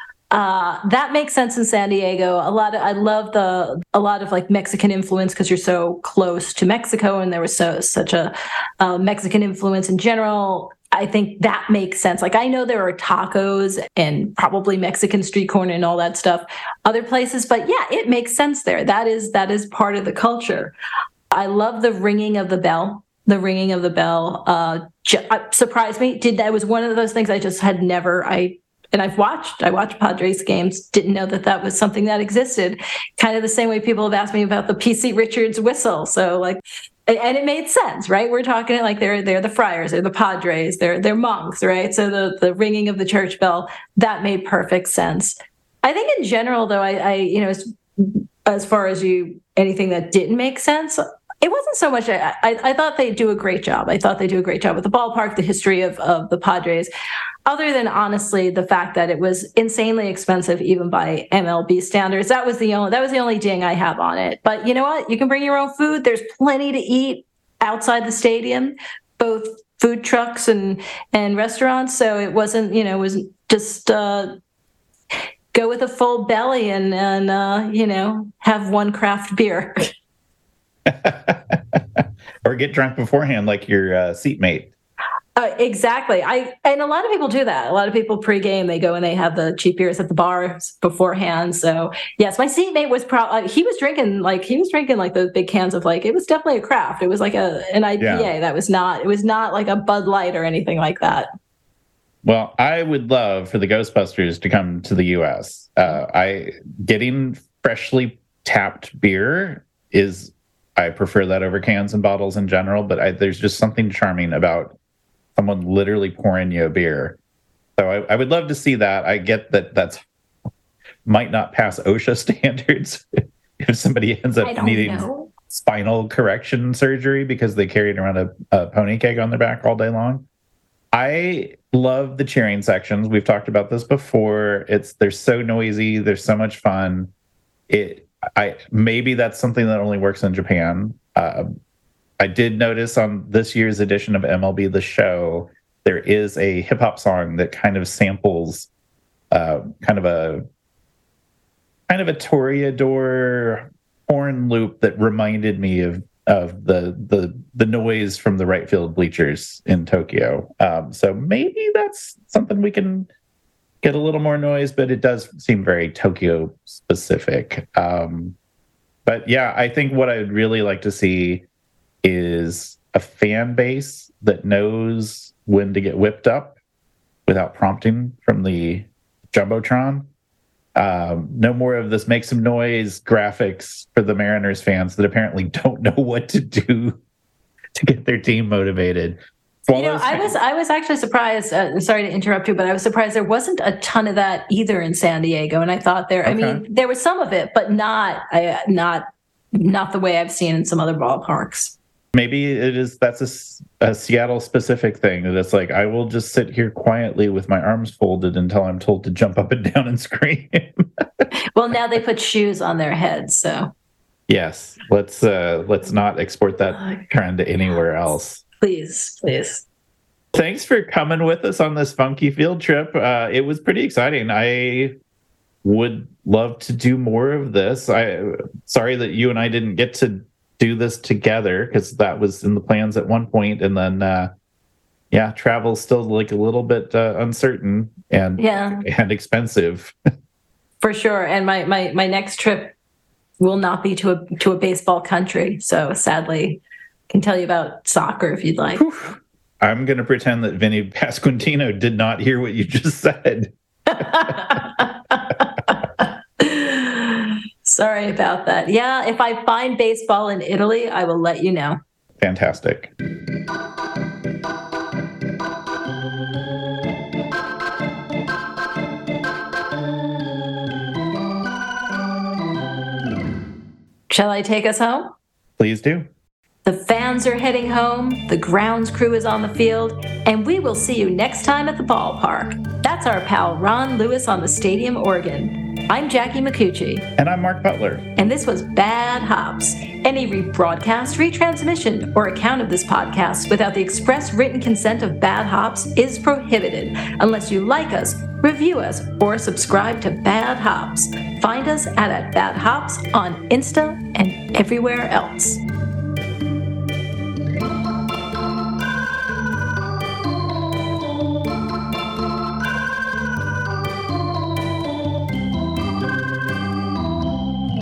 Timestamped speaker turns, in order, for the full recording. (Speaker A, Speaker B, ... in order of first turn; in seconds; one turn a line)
Speaker A: 0.3-20.7
Speaker A: 21.3-56.9
Speaker A: 57.5-74.4
Speaker A: 75.5-79.9
Speaker B: 80.8-84.7
Speaker A: 85.3-101.3
Speaker B: 98.0-98.3
Speaker B: 102.2-114.8
Speaker B: 115.3-117.2
Speaker B: 117.8-120.0
Speaker B: 121.0-130.2
Speaker A: 124.4-125.3
Speaker B: 130.9-137.1
Speaker B: 137.7-141.5
Speaker B: 142.2-148.7
Speaker B: 149.3-150.4
Speaker B: 151.9-163.1
Speaker B: 163.8-168.3
Speaker B: 169.1-171.4
Speaker B: 172.0-176.6
Speaker B: 177.3-180.1
Speaker B: 180.8-187.0
Speaker B: 187.8-190.3
Speaker A: 189.7-201.8
Speaker B: 196.2-196.6
Speaker B: 202.1-211.2
Speaker A: 211.5-213.7
Speaker B: 214.3-218.4
Speaker A: 216.7-217.1
Speaker A: 218.6-219.6
Speaker B: 220.3-224.9
Speaker B: 225.6-234.3
Speaker B: 235.1-239.9
Speaker A: 238.4-238.8
Speaker A: 240.8-242.7
Speaker A: 243.4-248.8
Speaker B: 248.8-254.5
Speaker A: 253.9-261.8
Speaker B: 262.2-262.9
Speaker A: 274.1-275.1
Speaker B: 275.6-276.1
Speaker A: 276.6-287.1
Speaker B: 287.2-288.0
Speaker A: 288.1-305.6